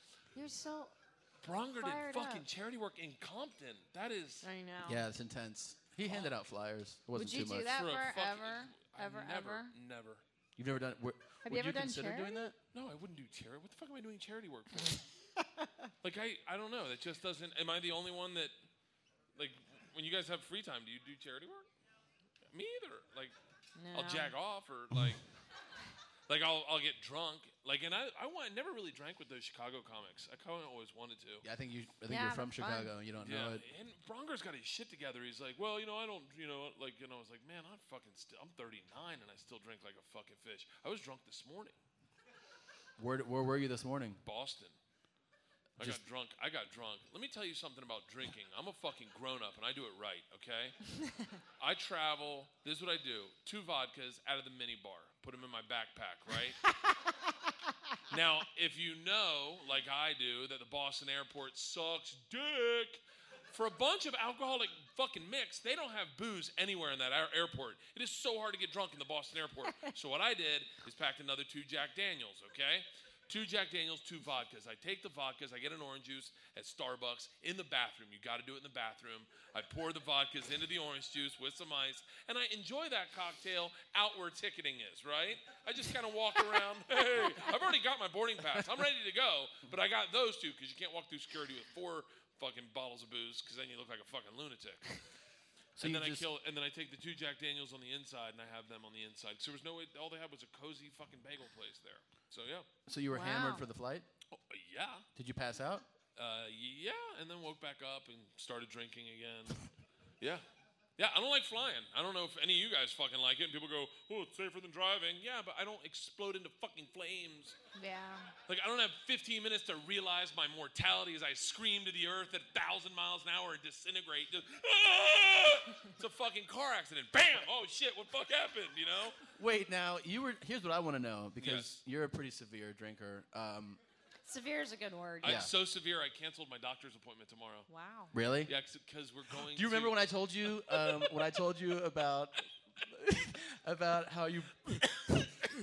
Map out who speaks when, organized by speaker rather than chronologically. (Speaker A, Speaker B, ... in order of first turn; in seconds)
Speaker A: 0.3-0.9, 1.7-2.5, 4.4-5.0, 7.1-9.7, 11.4-12.4, 23.8-24.4, 32.1-32.9, 103.1-103.7, 117.7-118.3, 134.2-135.5, 137.7-138.1
Speaker B: 1.4-4.5, 6.0-6.3, 7.7-10.2, 12.7-15.0, 16.0-18.5, 19.4-21.6, 22.5-23.3, 23.9-25.2, 26.3-31.4, 33.1-41.7, 44.2-44.7, 45.8-50.8, 51.6-56.6, 58.1-94.9, 95.8-102.7, 104.3-105.0, 106.2-109.6, 111.0-117.6, 118.5-129.2, 131.4-131.8, 135.2-137.7, 138.5-141.2
Speaker C: 4.8-7.7, 10.6-12.5, 31.4-33.6, 43.0-44.2, 95.8-96.3, 102.8-104.0, 105.2-105.9, 129.4-133.8, 135.2-135.5, 138.1-138.5, 139.4-145.3